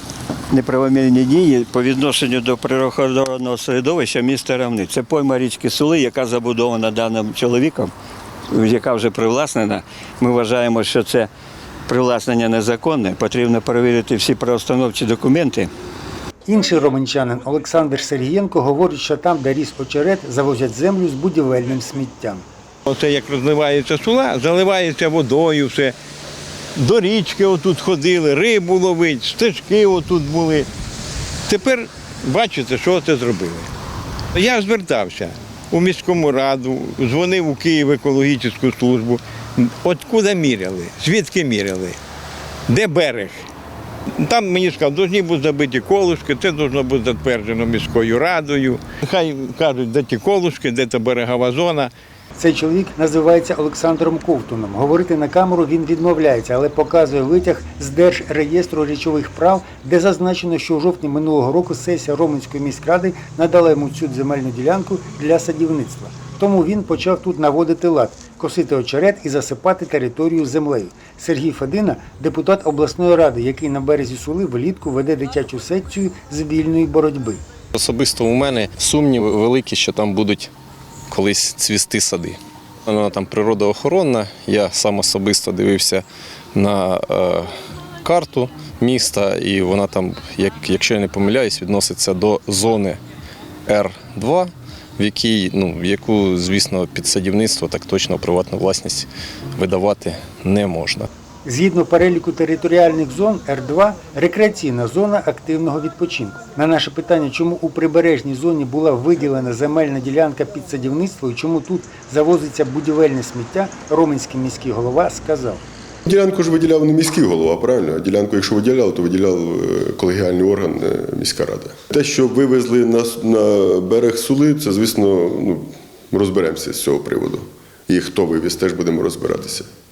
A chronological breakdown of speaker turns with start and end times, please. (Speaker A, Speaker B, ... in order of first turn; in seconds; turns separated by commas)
Speaker A: 0.5-7.9, Speaker A: 8.5-11.3, Speaker A: 11.9-15.7, Speaker B: 16.5-22.5, Speaker C: 22.9-25.9, Speaker C: 26.8-30.7, Speaker C: 31.5-33.7, Speaker C: 34.4-42.0, Speaker C: 42.7-43.5, Speaker C: 44.2-51.9, Speaker B: 52.4-77.4, Speaker D: 77.8-80.5, Speaker D: 81.1-86.0, Speaker D: 86.5-87.5, Speaker D: 88.0-93.0, Speaker D: 93.7-101.1, Speaker B: 101.5-115.6, Speaker E: 116.1-129.7